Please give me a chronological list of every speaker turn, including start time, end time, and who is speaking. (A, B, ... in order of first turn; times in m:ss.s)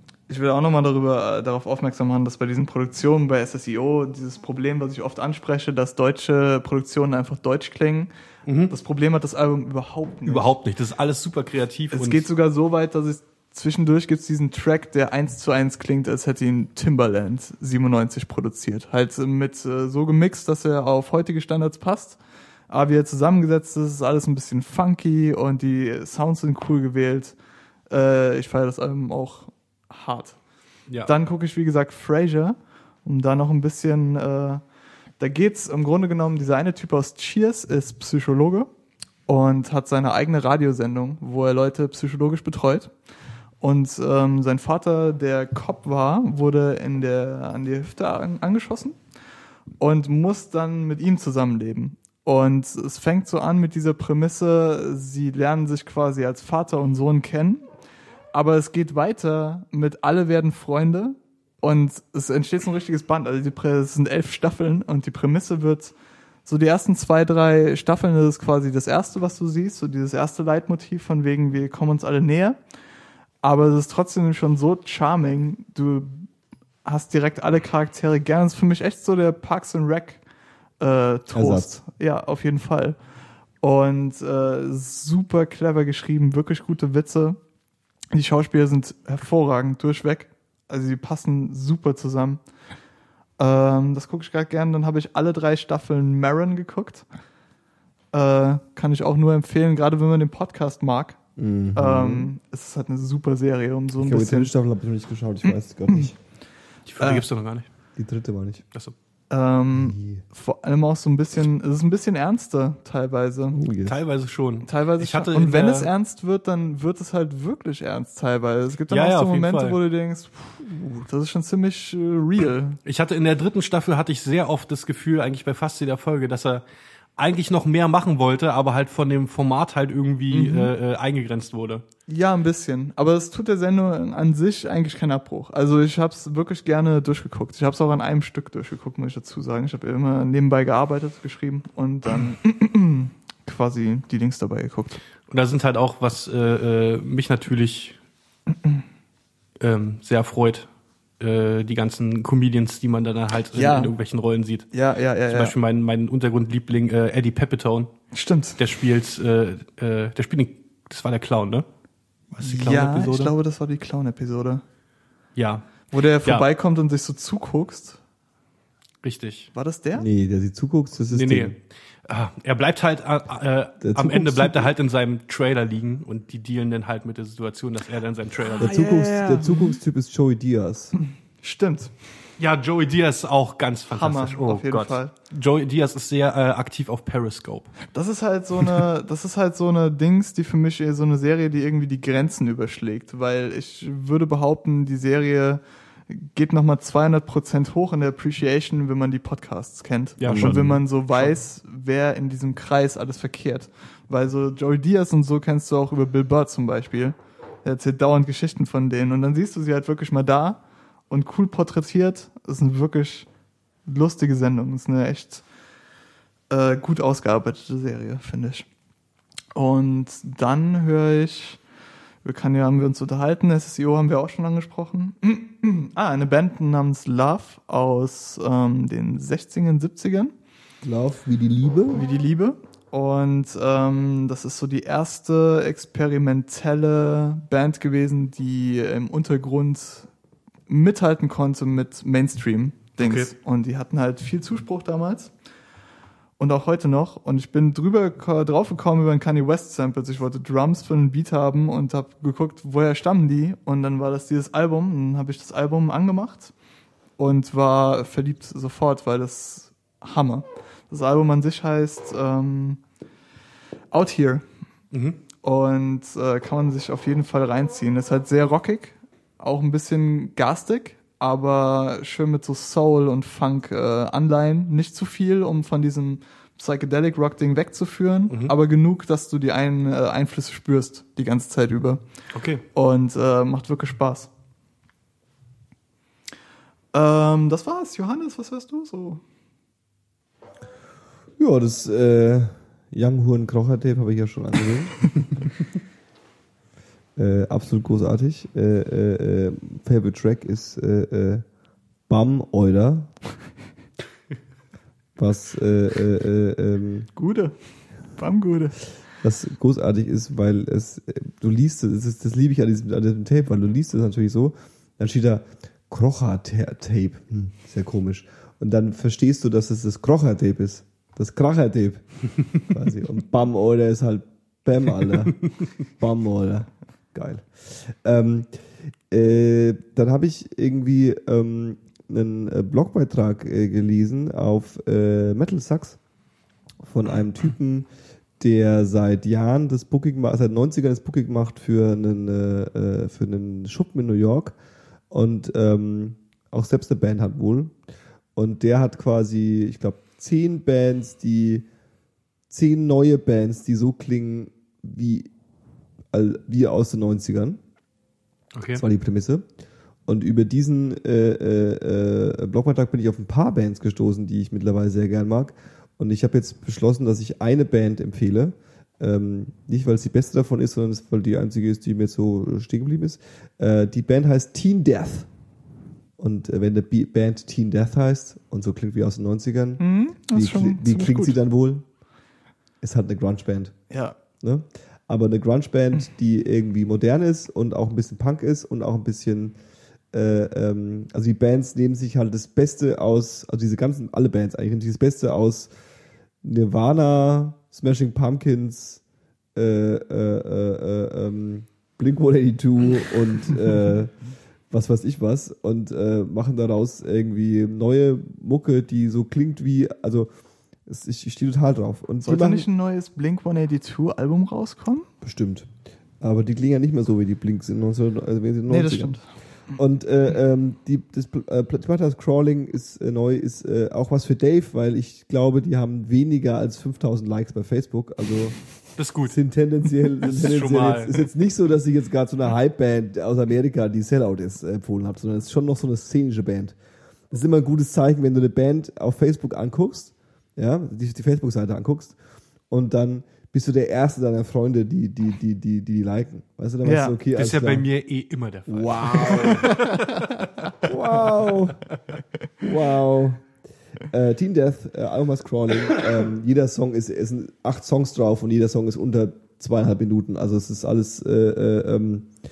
0:00.3-0:08.1 A
0:08.5-0:08.7 B
0:08.7-0:10.5 A
0:10.3-0:12.3 B
0:11.9-0:22.2 A
0:22.7-0:27.4 A
0:27.9-0:30.4 A
0:31.0-0:34.6 A
0:35.2-0:38.7 A
0:39.3-0:42.9 A
0:43.6-0:49.0 A
0:49.8-0:57.7 A
0:58.3-1:05.9 A
1:06.5-1:12.6 A
1:13.4-1:16.3 A
1:16.8-1:20.2 A
1:20.8-1:23.0 A
1:21.3-1:21.8 C
1:23.6-1:27.4 A
1:28.1-1:32.4 A
1:33.4-1:37.1 A
1:38.1-1:41.2 A
1:41.4-1:42.3 C
1:41.8-1:44.5 A
1:44.0-1:46.1 C
1:45.4-1:46.1 A
1:46.9-1:47.7 B
1:47.0-1:47.3 A
1:48.0-1:48.6 C
1:49.3-1:53.6 A
1:49.8-1:50.2 C
1:53.5-1:54.0 C
1:53.8-1:55.9 B
1:54.7-2:02.8 A
1:58.9-1:59.8 B
2:00.6-2:01.0 C
2:02.8-2:06.6 B
2:07.2-2:11.8 B
2:10.3-2:10.7 A
2:12.1-2:25.0 A
2:25.3-2:28.0 B
2:29.6-2:34.7 B
2:33.5-2:33.9 A
2:34.7-2:35.5 A
2:35.3-2:37.9 B
2:38.1-2:38.6 A
2:38.6-2:41.7 B
2:42.3-2:43.3 B
2:42.4-2:44.6 A
2:45.4-2:46.5 B
2:45.9-2:48.0 A
2:49.0-2:49.5 B
2:49.5-2:50.1 A
2:50.0-2:51.6 C
2:51.1-2:58.7 B
2:53.8-2:54.7 C
2:58.5-2:59.8 A
2:58.6-3:01.0 C
3:01.4-3:01.9 A
3:02.4-3:07.8 B
3:03.9-3:05.1 A
3:07.9-3:33.3 A
3:20.2-3:21.3 B
3:20.3-3:20.8 C
3:33.9-3:35.4 A
3:36.5-3:38.7 A
3:39.6-3:41.6 A
3:42.2-3:50.3 A
3:50.8-3:52.0 C
3:51.9-4:00.1 A
4:00.7-4:05.3 A
4:03.0-4:03.3 B
4:06.4-4:16.5 A
4:17.2-4:22.8 A
4:23.9-4:24.5 A
4:24.9-4:25.2 B
4:25.4-4:42.0 A
4:42.3-4:42.6 B
4:42.7-4:44.3 A
4:46.9-4:49.2 A
4:51.4-4:55.2 C
4:57.2-5:01.4 C
5:02.1-5:03.1 C
5:05.2-5:07.1 C
5:07.2-5:07.6 A
5:08.1-5:08.8 A
5:09.2-5:28.5 C
5:29.1-5:36.0 C
5:36.8-5:37.9 C
5:38.4-5:44.6 C
5:45.1-5:47.7 C
5:48.4-5:51.7 C
5:52.5-5:55.3 C
5:56.1-5:57.6 C
5:58.5-5:58.8 B
5:58.7-5:59.4 C
6:00.1-6:15.3 C
6:16.2-6:21.9 C
6:19.8-6:21.4 A
6:22.8-6:23.8 C
6:23.9-6:24.2 A
6:24.4-6:29.6 C
6:30.1-6:35.7 C
6:36.4-6:39.0 C
6:39.6-6:44.2 C
6:44.7-6:50.3 C
6:50.9-6:52.7 C
6:52.2-6:55.1 A
6:55.2-6:55.7 C
6:56.2-6:59.2 C
6:58.7-6:59.8 A
6:59.7-7:08.6 C
7:09.0-7:09.4 B
7:09.3-7:16.8 C
7:10.2-7:11.3 B
7:17.3-7:22.2 C
7:22.7-7:27.9 C
7:26.8-7:27.2 A
7:27.3-7:30.3 B
7:28.7-7:29.8 C
7:29.5-7:30.3 A
7:30.8-7:31.8 C
7:32.6-7:33.5 C
7:34.1-7:42.3 C